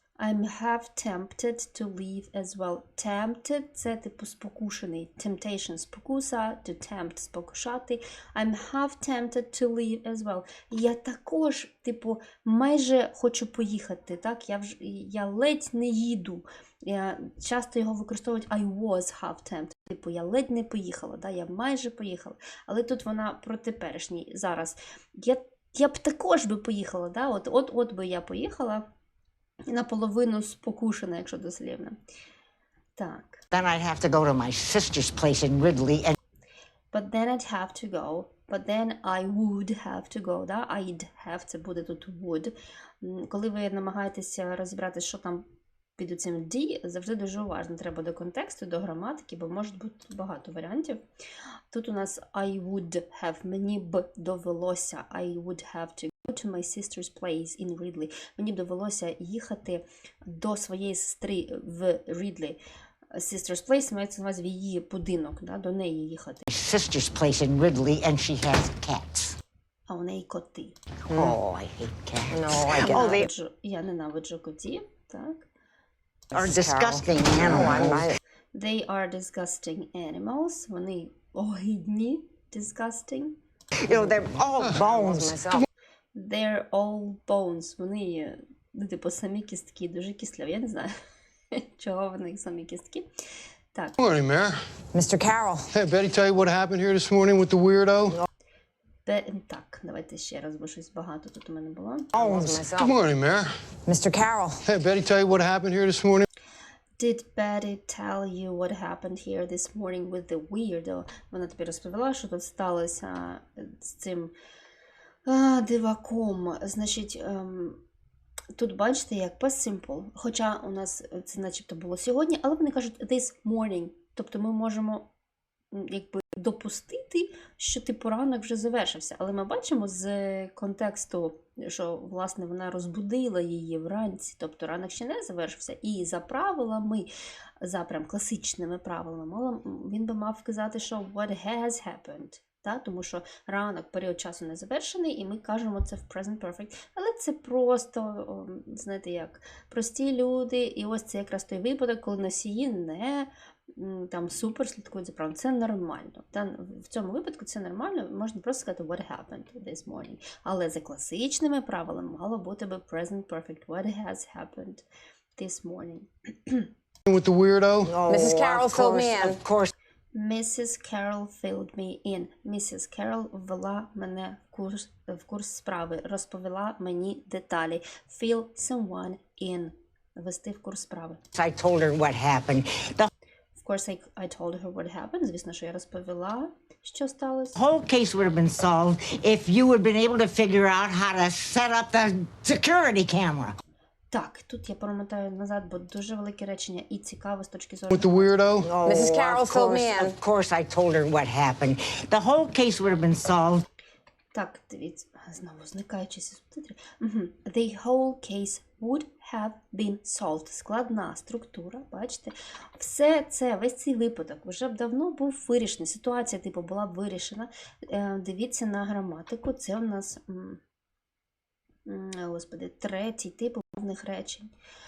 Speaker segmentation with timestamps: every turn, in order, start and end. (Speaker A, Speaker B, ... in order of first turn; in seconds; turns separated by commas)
Speaker A: 0.2-28.8, Speaker A: 29.7-32.0, Speaker A: 33.0-33.4, Speaker B: 33.5-36.1, Speaker A: 36.9-45.5, Speaker A: 46.0-51.0, Speaker A: 51.7-62.6, Speaker A: 63.1-66.5, Speaker B: 66.5-69.3, Speaker A: 69.9-70.8, Speaker C: 71.1-71.3, Speaker B: 71.1-73.3, Speaker C: 72.3-73.2, Speaker A: 72.9-75.5, Speaker C: 76.3-78.2, Speaker B: 76.3-78.1, Speaker A: 78.5-83.4, Speaker B: 83.8-85.5, Speaker C: 84.8-85.6, Speaker A: 86.1-90.9, Speaker A: 91.5-93.1, Speaker D: 94.0-94.6, Speaker C: 94.9-95.7, Speaker D: 95.7-98.2, Speaker A: 99.0-102.1, Speaker C: 102.1-103.0, Speaker B: 102.2-102.4, Speaker D: 102.8-103.5, Speaker C: 103.9-104.6, Speaker D: 104.6-106.2, Speaker A: 107.0-114.3, Speaker A: 115.2-117.8, Speaker A: 118.5-125.1, Speaker A: 125.7-137.1, Speaker A: 137.6-164.8, Speaker A: 165.3-166.7, Speaker D: 167.1-167.9, Speaker B: 167.8-169.7, Speaker C: 168.1-169.4, Speaker A: 170.1-181.2, Speaker B: 181.3-183.1, Speaker A: 183.6-187.6, Speaker B: 187.6-193.6, Speaker A: 194.1-198.3, Speaker D: 197.9-198.7, Speaker B: 198.6-203.6, Speaker C: 198.8-200.1, Speaker A: 204.3-220.6, Speaker A: 221.8-224.5